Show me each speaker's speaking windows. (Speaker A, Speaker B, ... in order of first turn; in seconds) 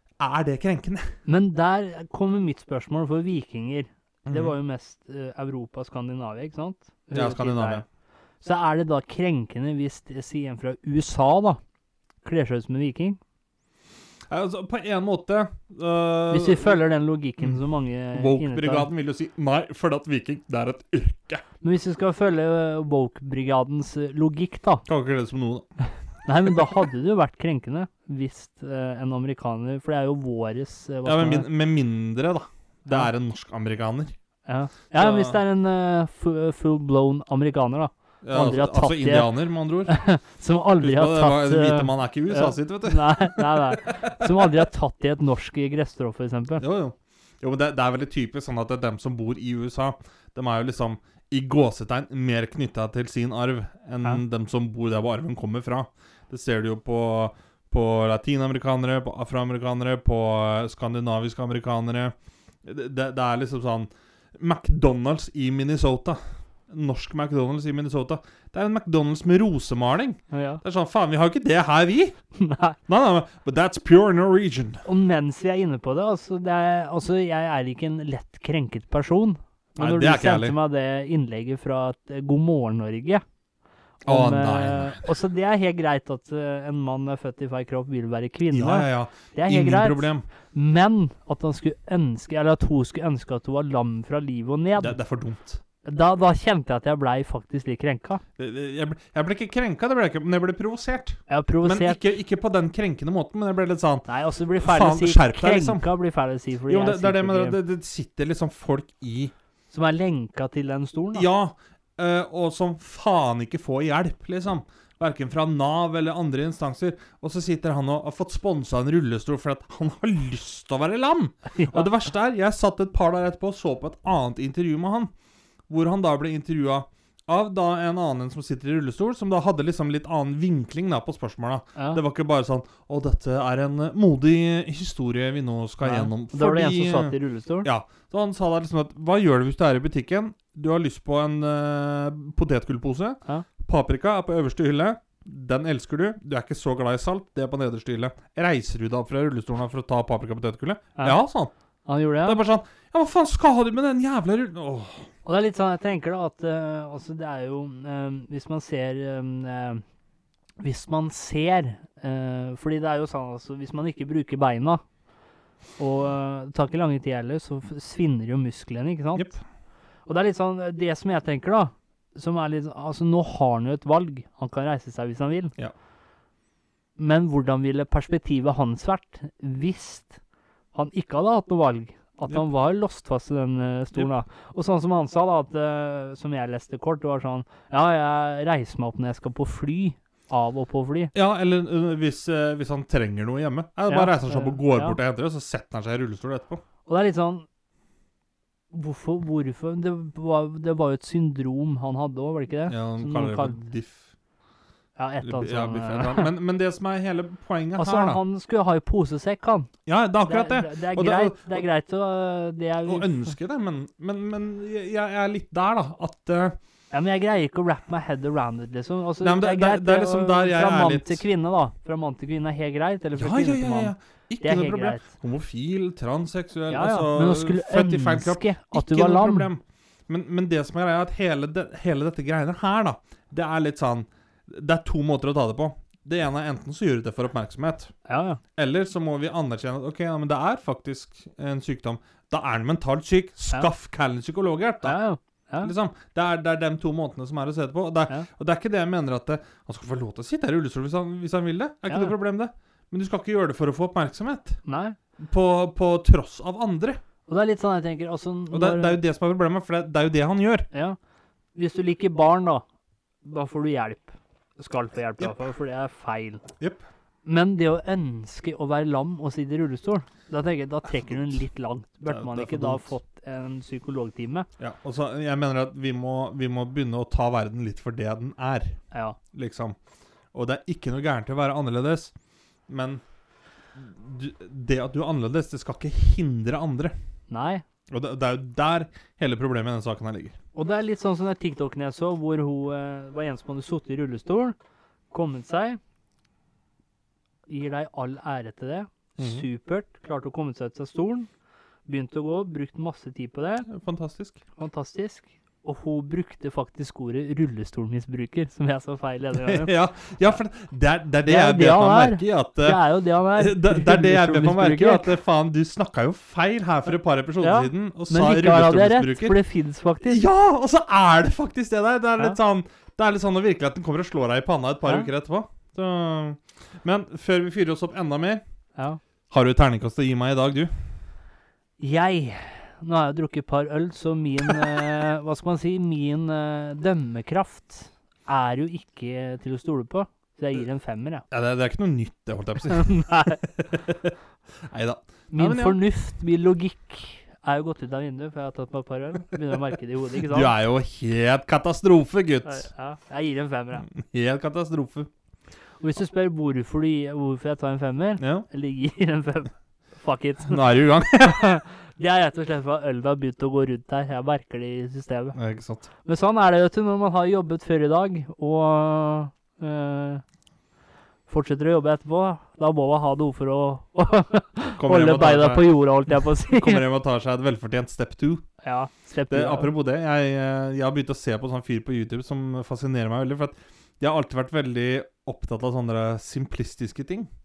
Speaker A: 0.2-1.1, 4.3-4.5, 7.2-7.8, 14.3-16.8, 18.1-21.4, 24.9-25.7, 26.5-26.7, 31.1-34.1, 34.9-35.4, 38.2-40.0, 40.8-44.6, 46.6-72.2, 72.9-74.8, 79.8-80.6, 84.1-85.1, 88.5-90.2, 94.8-95.6, 98.4-104.1, 104.6-105.9, 106.7-109.3, 111.1-125.1, 125.7-151.5, 152.2-155.1, 191.1-196.6, 202.7-204.0, 205.2-208.2, 209.9-211.6, 212.9-216.6, 219.2-221.2, 223.2-237.9, 238.6-245.0, 245.6-254.6, 255.2-257.0, 258.5-260.7, 272.1-273.0, 274.6-278.8, 279.3-279.8, 280.3-282.1, 282.7-283.0, 283.8-286.9, 287.9-290.4, 299.2-299.4, 303.7-304.4, 309.4-312.8, 313.4-319.4, 320.1-328.4, 329.3-330.7, 334.5-334.8, 341.3-345.8, 350.3-352.7, 353.9-355.1, 358.2-358.5, 360.5-361.5, 365.4-365.9, 374.8-378.5, 379.3-387.3
Speaker B: 1.3-7.8, 8.4-11.6, 12.2-13.2, 16.3-18.9, 21.6-24.9, 26.2-31.5, 32.9-33.1, 34.5-39.3, 39.9-46.6, 70.3-70.6, 72.4-72.8, 74.8-83.2, 84.0-95.0, 95.8-98.2, 101.3-102.1, 104.1-107.6, 109.7-111.3, 121.5-121.9, 131.8-132.0, 135.8-137.7, 151.9-152.4, 155.2-159.8, 160.6-164.8, 165.8-169.3, 170.1-175.5, 177.0-180.2, 180.7-191.1, 193.9-195.0, 196.9-197.5, 198.7-203.6, 205.0-206.3, 207.8-209.7, 210.3-213.3, 216.9-225.1, 226.7-229.5, 238.1-238.4, 244.8-245.7, 251.9-252.1, 254.7-255.0, 257.3-259.0, 260.7-261.0, 261.6-262.6, 263.2-266.4, 267.2-274.5, 278.9-279.2, 287.3-287.6, 290.6-294.6, 295.1-295.8, 297.5-301.3, 301.9-303.7, 304.6-309.7, 311.2-315.1, 317.4-320.2, 331.8-341.2, 342.7-343.4, 345.3-350.5, 352.5-353.9, 355.8-365.4, 366.1-370.2, 371.3-376.8, 378.6-379.7